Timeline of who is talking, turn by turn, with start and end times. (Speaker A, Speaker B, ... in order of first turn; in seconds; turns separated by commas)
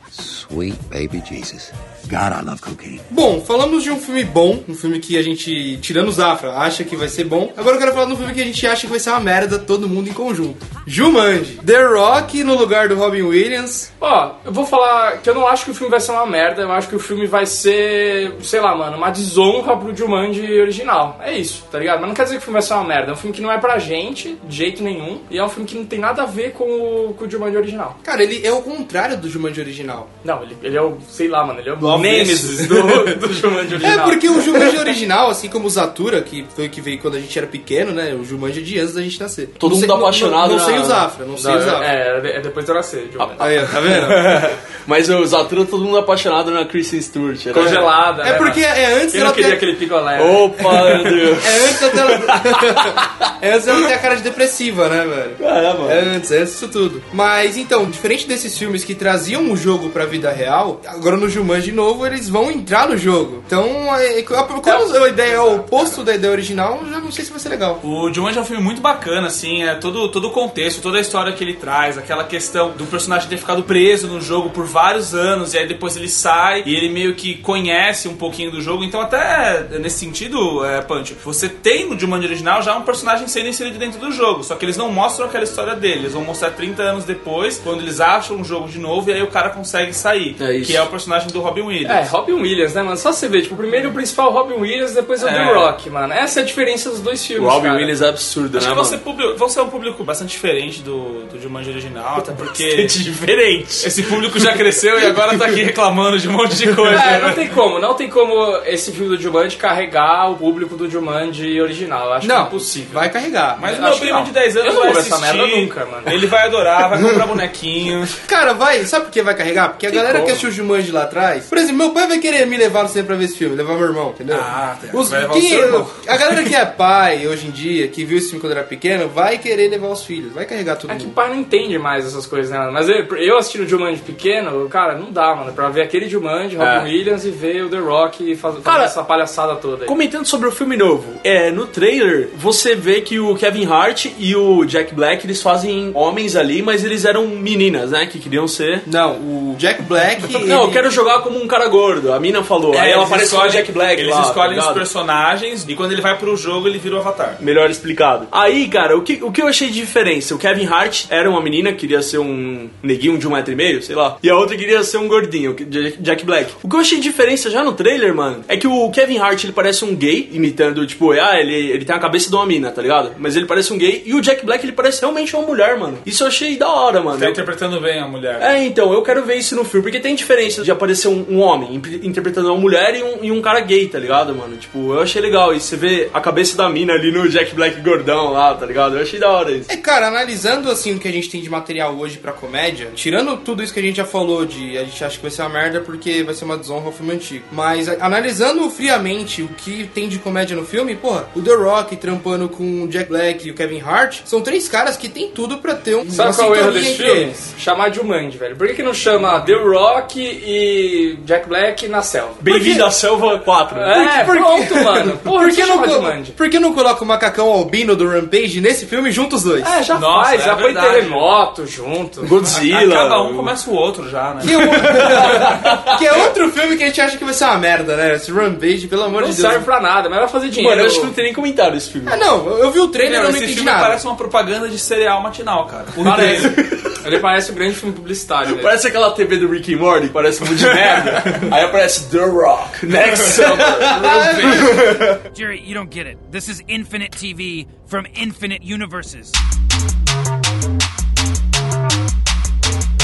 Speaker A: 0.1-3.0, Speaker B: 3.1-13.9, Speaker C: 14.0-28.0, Speaker B: 28.0-30.1, Speaker C: 30.2-34.7, Speaker D: 31.8-32.8, Speaker B: 32.9-33.2, Speaker B: 33.8-41.9, Speaker D: 39.6-41.1, Speaker C: 41.4-43.5, Speaker D: 43.2-47.9, Speaker B: 43.4-44.4, Speaker C: 47.5-51.0, Speaker B: 47.5-49.6, Speaker D: 50.2-53.0, Speaker B: 50.8-67.8, Speaker D: 55.4-56.1, Speaker C: 64.6-66.0, Speaker E: 67.8-92.1, Speaker D: 90.4-90.8, Speaker C: 91.8-97.9, Speaker E: 95.2-95.7, Speaker D: 97.4-99.0, Speaker E: 98.5-103.0, Speaker D: 102.5-103.9, Speaker E: 103.8-107.4, Speaker C: 106.9-113.0, Speaker B: 112.2-113.7, Speaker E: 113.6-118.2, Speaker C: 113.6-116.1, Speaker B: 118.2-131.1, Speaker C: 119.9-120.4, Speaker E: 124.3-126.0, Speaker C: 130.9-139.9, Speaker D: 136.6-136.9, Speaker D: 138.6-138.9, Speaker D: 139.9-148.9, Speaker B: 148.8-150.8, Speaker D: 150.4-154.8, Speaker E: 152.7-157.4, Speaker D: 157.4-177.4, Speaker E: 177.1-178.5, Speaker D: 178.4-189.7, Speaker B: 189.7-207.3, Speaker C: 206.1-212.5, Speaker D: 212.4-214.0, Speaker B: 212.5-212.8, Speaker C: 213.7-216.3, Speaker B: 213.9-219.8, Speaker C: 219.6-222.3, Speaker E: 219.9-221.3, Speaker D: 222.2-223.5, Speaker E: 222.4-225.6, Speaker B: 224.4-229.6, Speaker D: 224.6-226.2, Speaker C: 229.1-231.1, Speaker D: 230.6-232.2, Speaker B: 232.1-234.0, Speaker E: 233.0-236.6, Speaker C: 236.0-238.7, Speaker D: 236.0-237.0, Speaker D: 238.4-245.2, Speaker B: 243.5-245.0, Speaker F: 245.3-249.4